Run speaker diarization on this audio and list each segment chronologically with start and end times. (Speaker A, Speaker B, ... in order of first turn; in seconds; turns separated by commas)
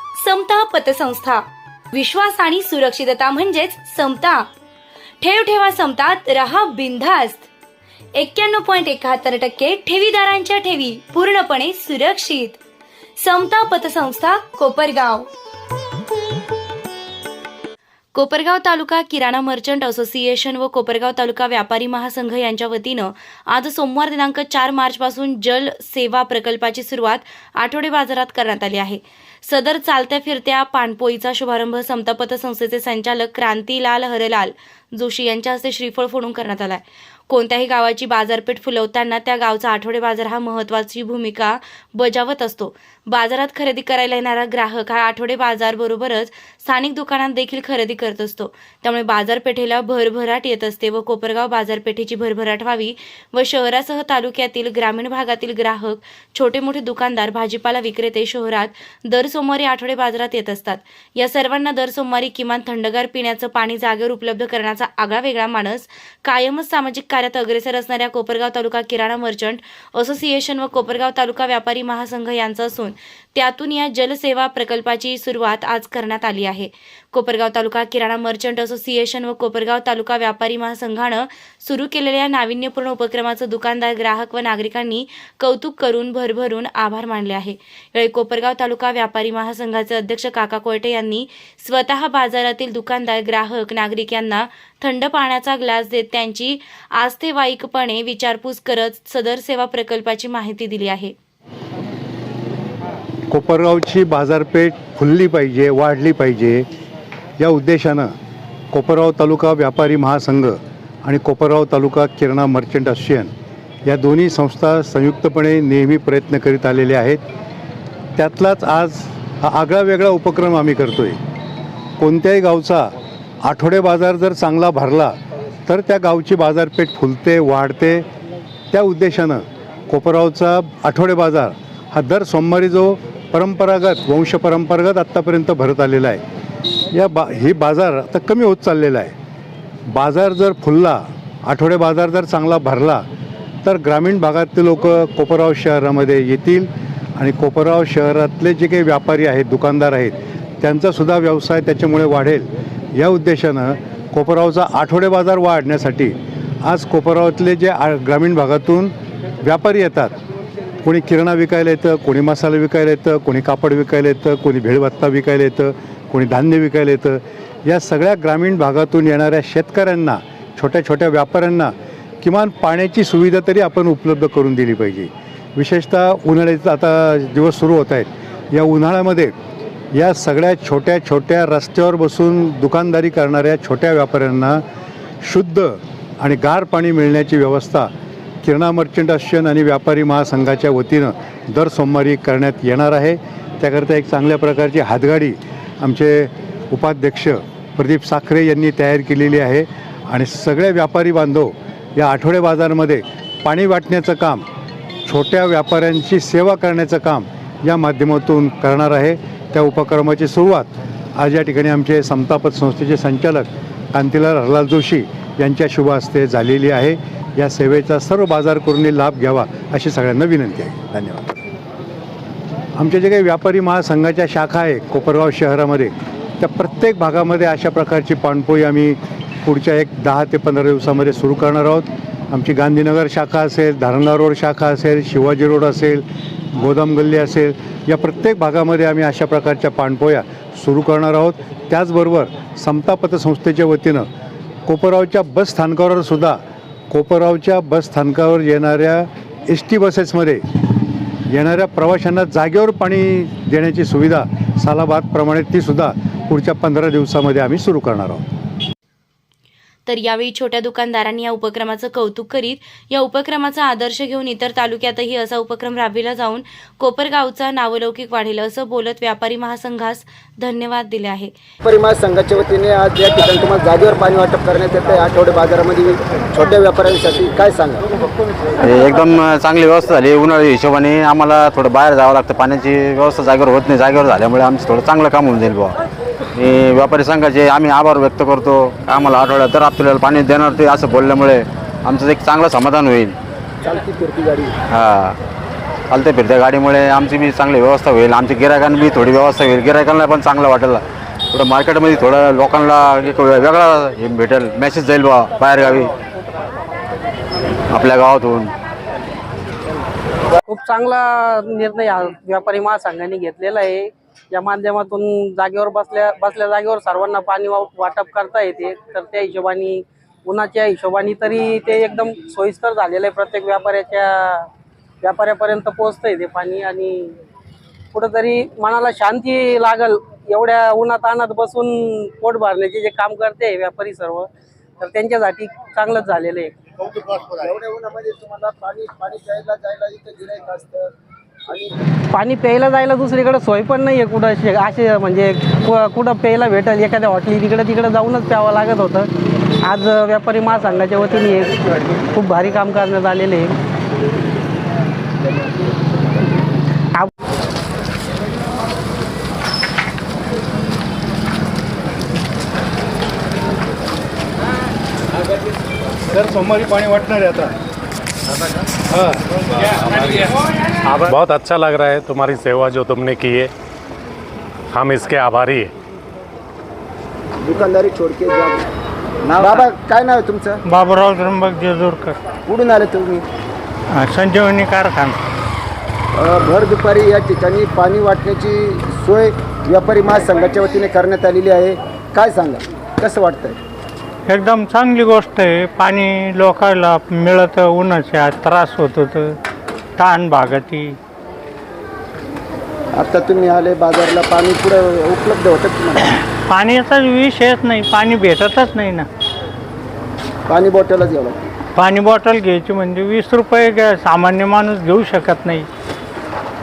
Speaker A: 0.2-1.2, Speaker A: 2.9-3.9, Speaker A: 5.3-7.4, Speaker A: 8.2-12.4, Speaker A: 13.3-15.1, Speaker A: 18.1-101.1, Speaker B: 103.3-106.7, Speaker B: 107.4-108.1, Speaker B: 108.7-113.3, Speaker B: 113.9-117.2, Speaker B: 118.2-121.2, Speaker B: 122.0-122.9, Speaker B: 123.5-125.1, Speaker B: 125.7-128.0, Speaker B: 128.7-136.2, Speaker B: 136.9-139.1, Speaker B: 139.9-143.0, Speaker B: 143.6-158.9, Speaker B: 159.4-160.1, Speaker B: 160.8-179.3, Speaker B: 179.9-184.6, Speaker B: 185.2-187.9, Speaker B: 188.4-204.4, Speaker B: 205.0-221.3, Speaker B: 222.8-244.1, Speaker B: 244.7-250.4, Speaker B: 251.3-258.2, Speaker A: 259.9-271.3, Speaker C: 271.6-277.9, Speaker D: 278.6-285.8, Speaker D: 286.4-293.2, Speaker C: 293.6-294.5, Speaker D: 294.7-295.2, Speaker D: 295.9-305.9, Speaker D: 307.7-308.6, Speaker E: 310.5-324.5, Speaker E: 325.0-327.1, Speaker E: 327.9-334.3, Speaker E: 334.8-336.6, Speaker C: 337.2-340.9, Speaker C: 341.5-341.8, Speaker E: 342.1-349.1, Speaker E: 349.6-351.6, Speaker E: 352.1-353.5, Speaker B: 366.1-367.6, Speaker B: 368.9-369.2, Speaker F: 369.7-370.3, Speaker F: 370.9-373.5, Speaker F: 374.7-375.7, Speaker C: 377.4-378.7, Speaker C: 379.2-380.6, Speaker G: 380.7-382.2, Speaker C: 382.5-383.2, Speaker G: 383.9-385.2, Speaker C: 386.2-393.6, Speaker G: 394.3-399.4, Speaker G: 400.0-401.0, Speaker C: 403.0-406.1, Speaker G: 406.5-409.1, Speaker C: 410.5-411.4, Speaker G: 411.8-415.7